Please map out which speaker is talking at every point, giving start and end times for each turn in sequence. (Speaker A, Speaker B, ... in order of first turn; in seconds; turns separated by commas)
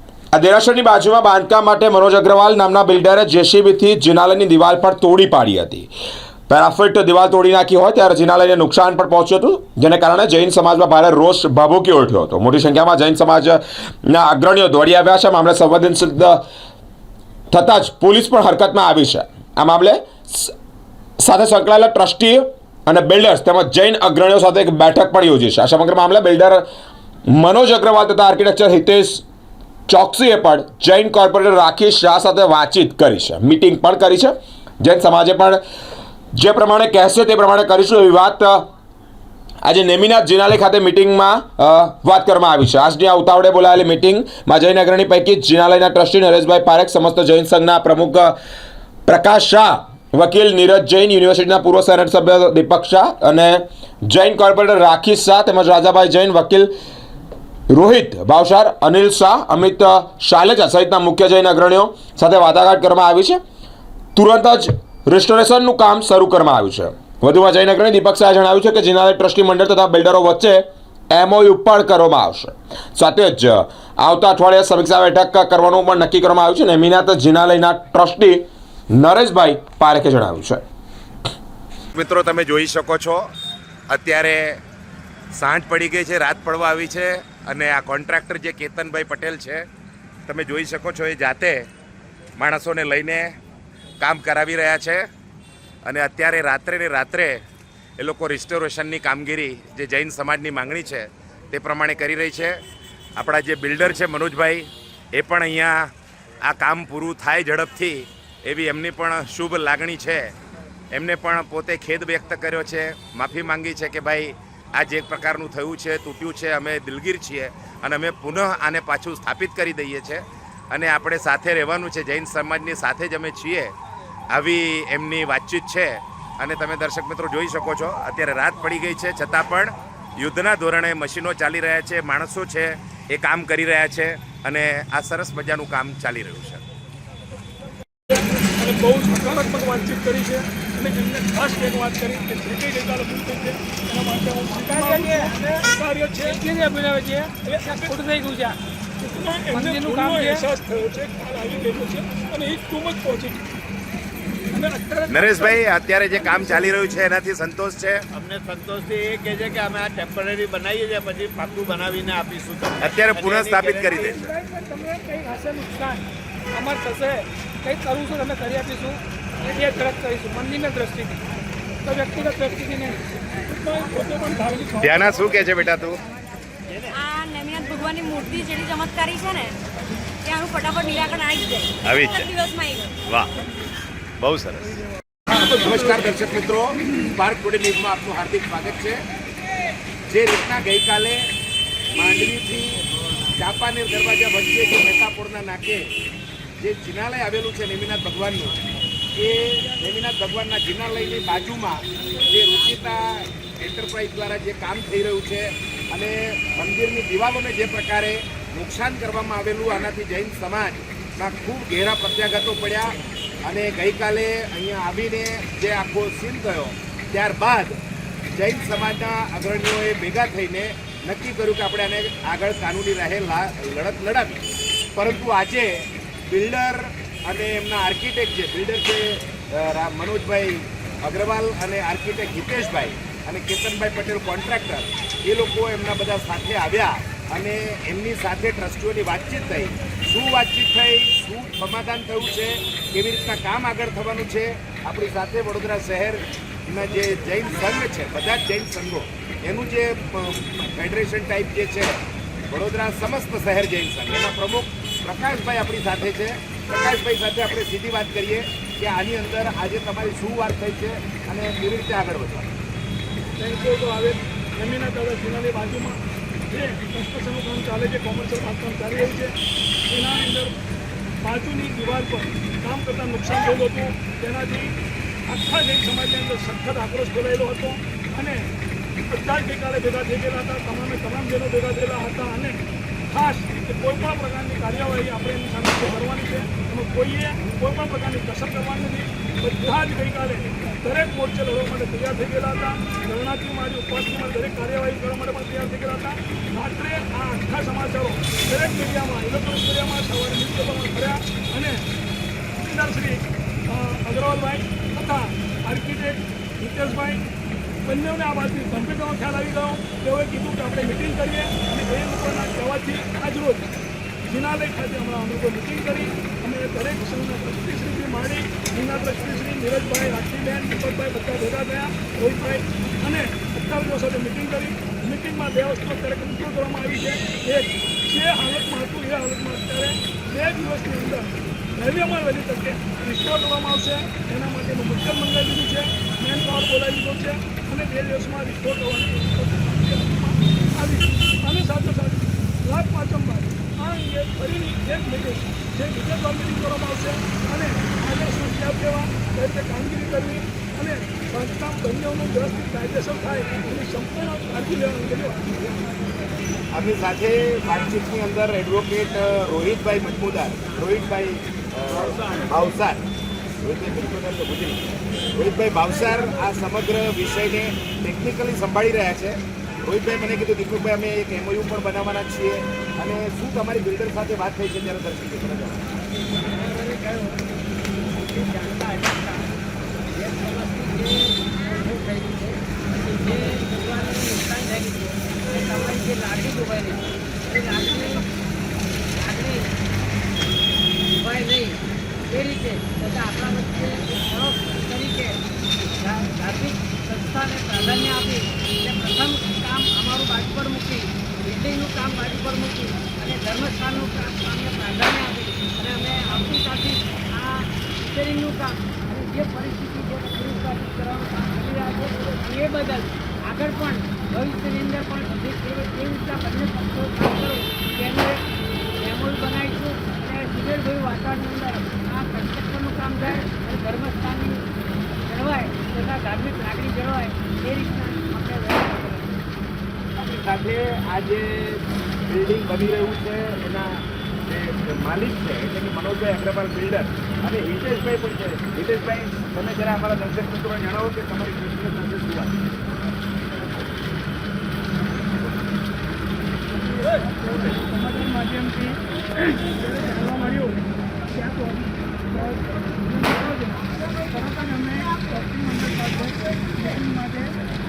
Speaker A: 0.3-5.9, Speaker A: 6.5-16.4, Speaker A: 17.5-20.5, Speaker A: 21.2-26.6, Speaker A: 27.3-29.2, Speaker A: 29.9-35.6, Speaker A: 36.4-38.6, Speaker A: 39.6-48.4, Speaker A: 49.1-56.7, Speaker A: 57.7-63.4, Speaker A: 64.2-80.6, Speaker B: 81.9-83.2, Speaker B: 83.9-84.6, Speaker B: 85.3-89.7, Speaker B: 90.3-91.7, Speaker B: 92.4-93.3, Speaker B: 94.0-95.0, Speaker B: 95.8-97.4, Speaker B: 98.0-102.6, Speaker B: 103.2-105.9, Speaker B: 106.4-110.3, Speaker B: 110.9-123.7, Speaker B: 124.3-136.6, Speaker C: 138.1-146.4, Speaker D: 144.6-145.6, Speaker D: 146.2-148.6, Speaker C: 147.4-148.0, Speaker C: 149.0-153.4, Speaker D: 149.5-150.5, Speaker C: 154.5-155.6, Speaker B: 155.1-158.0, Speaker E: 158.1-164.0, Speaker B: 162.8-164.3, Speaker C: 164.4-166.0, Speaker D: 164.5-165.4, Speaker D: 166.6-169.0, Speaker C: 166.6-167.1, Speaker C: 167.7-168.8, Speaker D: 169.5-171.2, Speaker C: 171.8-172.8, Speaker D: 172.0-173.0, Speaker C: 173.5-174.9, Speaker B: 174.8-176.0, Speaker F: 176.9-179.5, Speaker F: 180.2-182.9, Speaker B: 181.8-182.3, Speaker B: 184.2-184.7, Speaker E: 184.5-184.8, Speaker B: 185.3-189.0, Speaker B: 190.1-191.3, Speaker B: 191.9-192.8, Speaker B: 193.3-195.9, Speaker B: 196.6-198.5, Speaker B: 199.1-217.8, Speaker B: 218.3-224.4, Speaker B: 224.9-262.5, Speaker C: 263.4-266.0, Speaker C: 266.5-269.3, Speaker C: 269.9-270.5, Speaker C: 271.2-274.7, Speaker C: 275.3-278.4, Speaker C: 279.1-282.6, Speaker C: 283.1-301.8, Speaker C: 302.6-307.3, Speaker C: 307.8-313.7, Speaker C: 314.3-355.8, Speaker B: 356.7-363.0, Speaker B: 363.6-375.8, Speaker G: 376.4-377.4, Speaker G: 378.1-379.5, Speaker G: 380.1-388.3, Speaker G: 389.2-389.7, Speaker G: 391.2-418.4, Speaker G: 419.0-424.6, Speaker G: 425.2-429.4, Speaker B: 430.1-442.6, Speaker C: 446.9-457.5